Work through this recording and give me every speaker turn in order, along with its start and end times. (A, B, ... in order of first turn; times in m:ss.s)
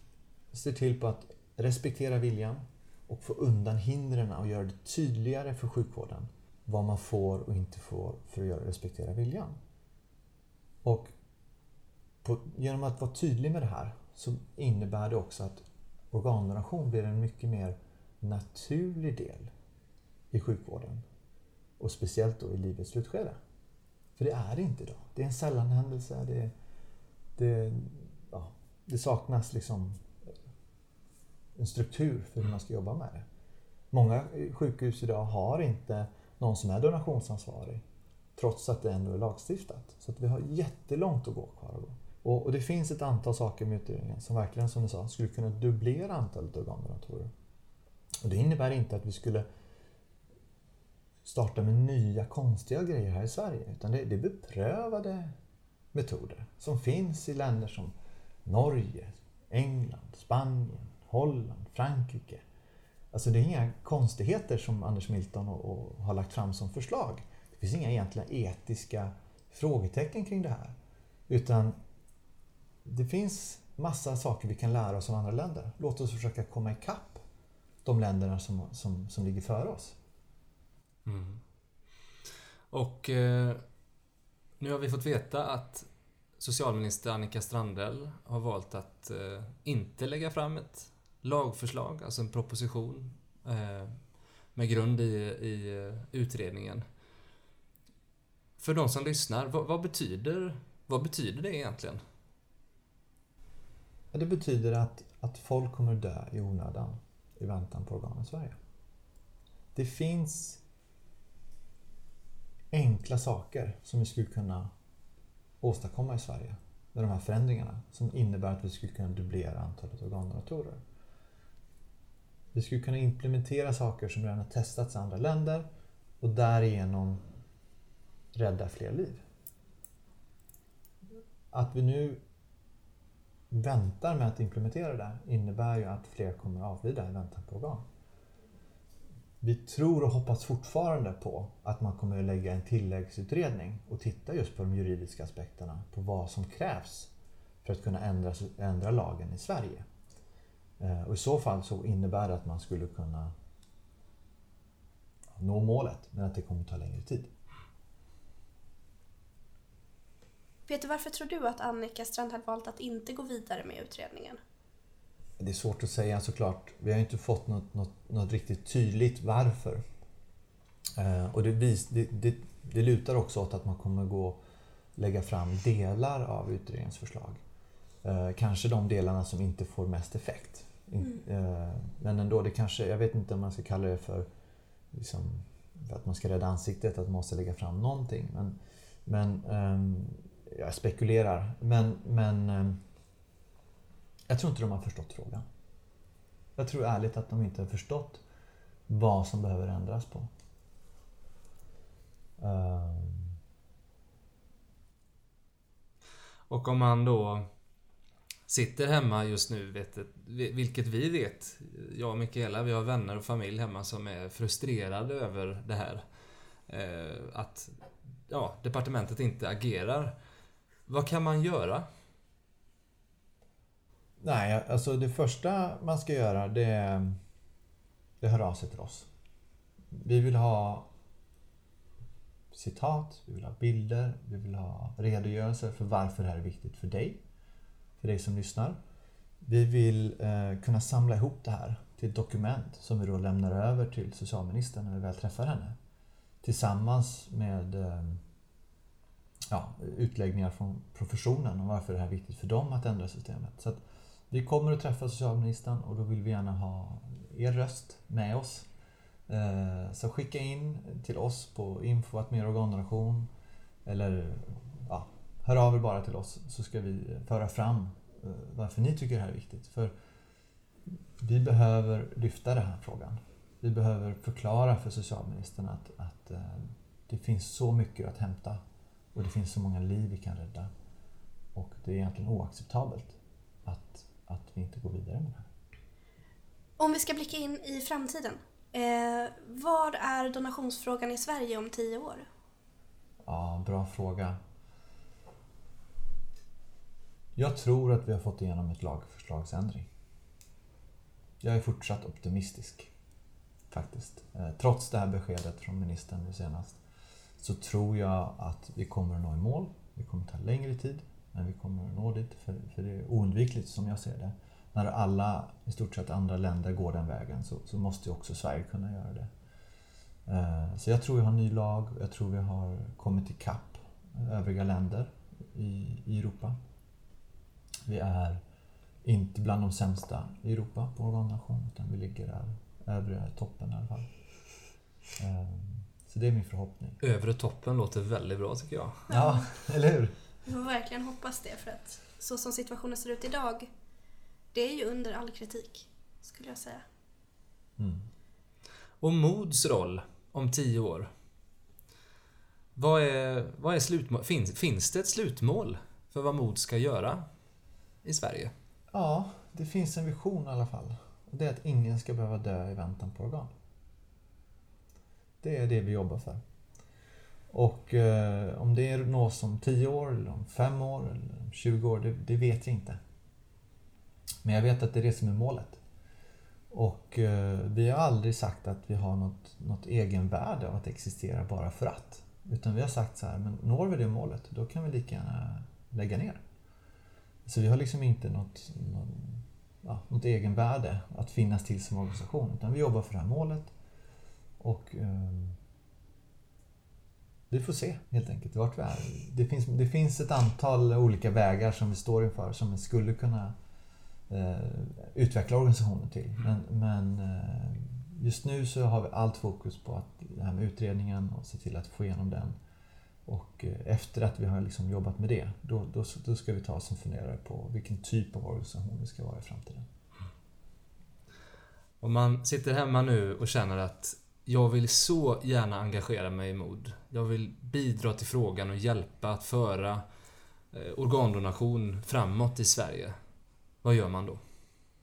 0:00.5-0:09.6 A
0:10.8-0:11.1 A
0:12.2-0:19.5 A
0:20.3-0:21.0 A
0:21.8-0:23.4 A
0:24.2-0:26.5 A
0:27.4-0:30.0 A
0:31.6-0:33.2 A
0:33.9-0:37.8 A
0:38.4-0:47.3 A
0:48.2-0:49.5 A
0:51.2-0:55.3 A
0:55.9-0:57.9 A
0:58.4-1:02.4 A
1:03.1-1:10.8 A
1:11.3-1:11.8 A
1:12.8-1:17.2 A
1:17.8-1:20.0 A
1:21.1-1:21.4 B
1:22.7-1:23.6 B
1:24.6-1:34.0 B
1:34.6-1:36.8 B
1:38.6-1:42.0 B
1:44.1-1:48.6 A
1:49.8-1:50.6 A
1:52.7-1:54.7 A
1:55.6-2:00.8 A
2:02.5-2:05.7 A
2:06.2-2:07.2 A
2:08.4-2:09.2 A
2:11.5-2:12.2 A
2:13.5-2:17.8 A
2:19.4-2:27.1 A
2:27.6-2:29.9 A
2:30.8-2:33.3 A
2:35.4-2:37.3 A
2:40.7-2:44.4 C
2:45.4-2:49.8 A
2:51.0-2:54.4 A
2:55.0-2:57.4 A
2:58.0-3:04.3 A
3:04.9-3:12.8 A
3:14.3-3:15.4 A
3:16.6-3:18.2 A
3:18.9-3:20.3 A
3:22.4-3:23.4 A
3:26.5-3:27.5 B
3:28.5-3:36.0 B
3:36.7-3:37.7 B
3:38.3-3:40.2 B
3:40.9-3:41.9 B
3:44.2-3:47.2 A
3:48.2-3:49.1 A
3:49.9-3:50.9 A
3:52.5-3:57.2 A
3:58.0-3:58.8 A
3:59.4-4:05.8 A
4:06.4-4:08.2 A
4:09.5-4:18.7 A
4:19.3-4:23.3 A
4:23.8-4:29.9 A
4:31.2-4:38.6 A
4:39.2-4:40.7 A
4:41.6-4:45.5 A
4:46.8-4:52.3 C
4:53.2-4:54.4 A
4:57.4-4:59.9 A
5:01.4-5:02.9 A
5:03.7-5:06.8 A
5:07.4-5:19.3 A
5:20.3-5:26.6 A
5:27.9-5:28.4 A
5:29.0-5:34.1 A
5:35.2-5:37.0 A
5:37.0-5:39.1 B
5:39.1-5:40.1 A
5:39.1-5:39.5 C
5:40.5-5:43.7 C
5:44.5-5:46.8 C
5:47.8-5:48.0 A
5:49.0-5:51.1 B
5:52.8-5:57.3 B
5:58.0-5:58.5 B
5:58.9-6:03.5 A
6:05.4-6:06.4 A
6:07.5-6:13.0 A
6:14.4-6:15.8 A
6:16.7-6:26.4 A
6:27.5-6:33.7 A
6:34.6-6:35.6 A
6:37.5-6:43.5 A
6:44.3-6:52.6 A
6:53.3-6:59.9 A
7:02.0-7:10.0 B
7:10.7-7:13.2 B
7:13.8-7:14.4 B